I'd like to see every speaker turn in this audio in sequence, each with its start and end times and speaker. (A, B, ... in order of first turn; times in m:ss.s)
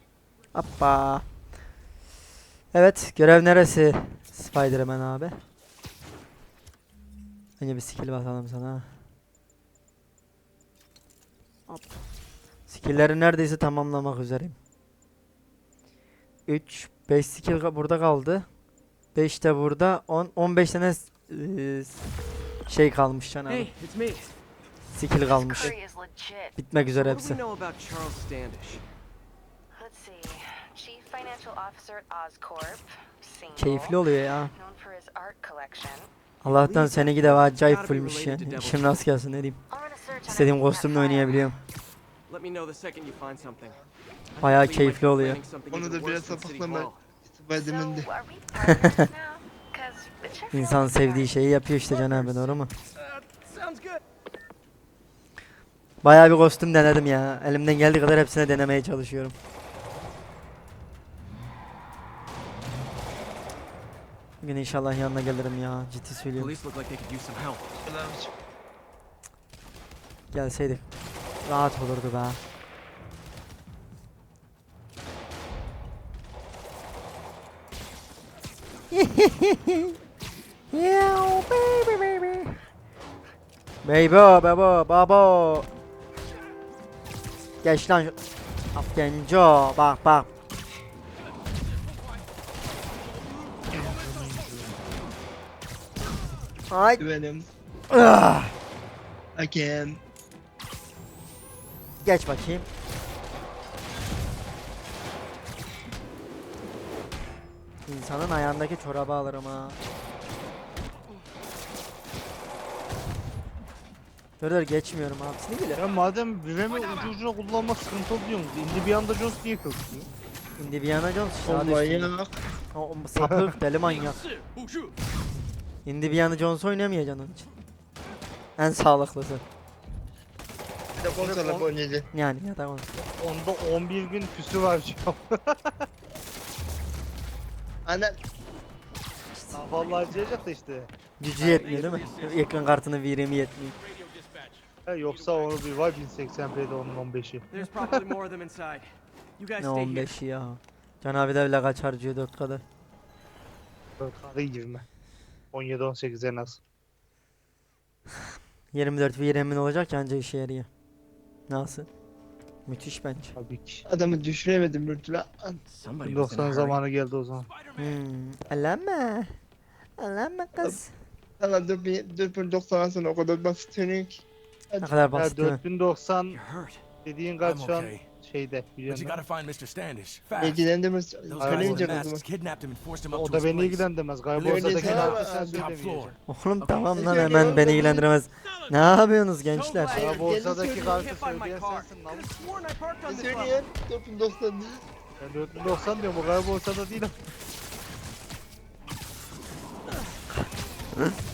0:00.5-0:01.2 A
0:02.7-0:05.4 A
0:07.6-0:08.9 A
0:12.7-0:14.6 A
0:16.5-0:18.4 A
0:19.1-0:22.0 A
0:22.7-0:23.7 A
0:23.5-0:24.3 B
0:24.9-0:25.8 A
0:25.3-0:26.5 C
0:26.6-0:27.4 A
0:27.0-0:28.8 B
0:29.7-0:36.1 C
0:33.6-0:34.5 A
0:36.4-0:39.6 A
0:36.4-0:39.0 B
0:39.7-0:41.5 C
0:40.2-0:41.6 A
0:42.3-0:43.8 B
0:43.3-0:43.9 D
0:44.3-0:47.0 B
0:44.4-0:45.4 A
0:45.7-0:48.1 D
0:47.6-0:51.4 C
0:48.6-0:49.0 A
0:50.5-0:52.7 A
0:51.9-0:52.6 C
0:52.9-0:54.0 B
0:56.0-0:59.3 A
1:04.4-1:06.5 A
1:06.4-1:07.8 B
1:07.8-1:08.3 D
1:10.3-1:10.8 A
1:11.4-1:12.4 A
1:18.9-1:19.9 A
1:20.7-1:22.5 A
1:23.8-1:25.7 A
1:27.6-1:28.2 A
1:28.7-1:30.3 A
1:33.7-1:34.7 E
1:36.7-1:37.0 A
1:37.0-1:37.5 D
1:37.9-1:38.5 A
1:39.3-1:40.0 D
1:42.0-1:42.6 A
1:47.9-1:49.8 A
1:54.4-1:55.8 A
1:55.7-2:00.1 E
2:00.6-2:02.1 A
2:01.4-2:02.3 D
2:02.7-2:04.2 A
2:04.3-2:04.9 F
2:05.8-2:07.5 A
2:08.6-2:09.4 A
2:11.0-2:12.1 D
2:11.0-2:11.7 E
2:12.1-2:12.9 A
2:13.0-2:15.8 E
2:17.8-2:18.2 D
2:19.5-2:20.9 E
2:21.2-2:23.7 A
2:21.4-2:22.4 B
2:21.4-2:22.6 F
2:23.9-2:24.6 F
2:24.8-2:28.0 E
2:27.5-2:30.1 B
2:29.6-2:32.6 A
2:34.0-2:34.8 E
2:35.5-2:36.6 E
2:38.7-2:40.7 A
2:41.5-2:41.9 A
2:42.7-2:43.3 A
2:43.4-2:43.8 E
2:43.8-2:45.6 D
2:45.7-2:46.8 B
2:46.0-2:47.5 E
2:47.8-2:49.3 A
2:50.0-2:50.9 A
2:51.4-2:54.9 D
2:54.8-2:55.6 A
2:55.1-2:56.4 E
2:56.3-2:56.8 B
2:57.0-2:59.2 E
2:57.4-2:58.1 F
2:58.9-3:00.6 F
3:00.4-3:02.2 D
3:01.3-3:06.1 F
3:01.4-3:02.0 E
3:03.1-3:06.2 E
3:04.4-3:05.7 D
3:04.7-3:05.1 B
3:06.3-3:10.0 A
3:06.6-3:07.5 B
3:06.9-3:08.0 D
3:09.5-3:13.5 B
3:09.9-3:11.0 D
3:09.9-3:12.4 E
3:13.0-3:14.8 D
3:15.2-3:17.2 E